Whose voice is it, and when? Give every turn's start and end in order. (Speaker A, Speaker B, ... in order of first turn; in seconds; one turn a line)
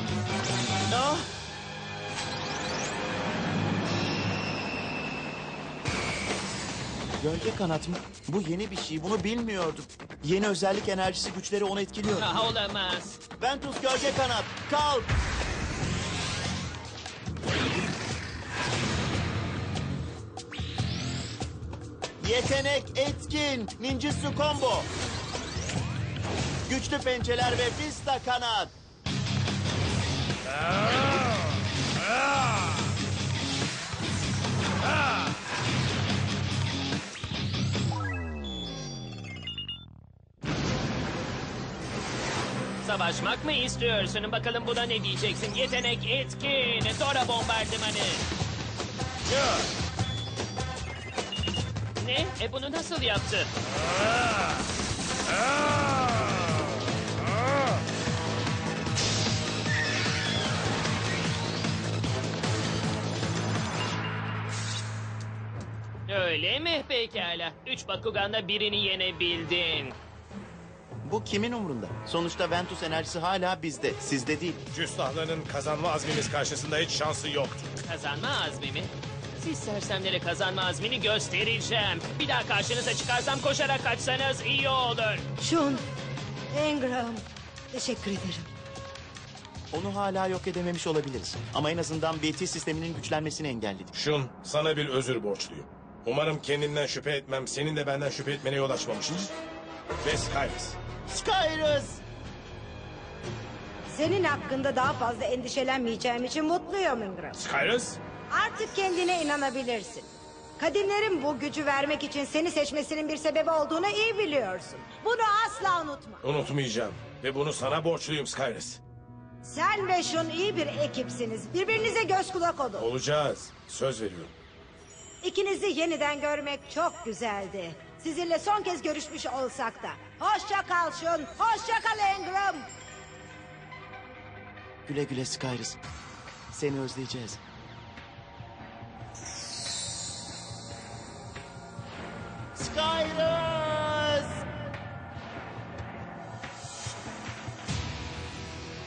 Speaker A: 0.9-1.3
Speaker A: 7.2-12.5
Speaker B: 12.2-13.2
Speaker A: 13.4-15.1
Speaker A: 22.2-24.9
Speaker A: 26.7-28.7
Speaker C: 30.5-31.3
Speaker C: 32.0-32.7
Speaker B: 42.8-48.2
Speaker C: 49.3-49.6
Speaker B: 52.0-53.5
Speaker C: 53.8-54.4
Speaker C: 55.6-56.0
Speaker B: 66.1-70.0
Speaker A: 71.0-74.6
Speaker C: 74.7-77.7
Speaker B: 77.8-85.2
Speaker D: 85.4-85.8
Speaker D: 86.5-88.5
Speaker A: 89.7-93.9
Speaker C: 93.9-99.3
Speaker C: 100.0-100.8
Speaker A: 101.1-102.0
Speaker D: 103.9-107.4
Speaker C: 107.3-108.0
Speaker D: 108.3-116.2
Speaker C: 116.2-118.8
Speaker D: 119.4-122.9
Speaker C: 122.7-124.3
Speaker D: 125.2-132.7
Speaker A: 134.8-135.8
Speaker A: 136.5-137.4
Speaker A: 142.5-144.4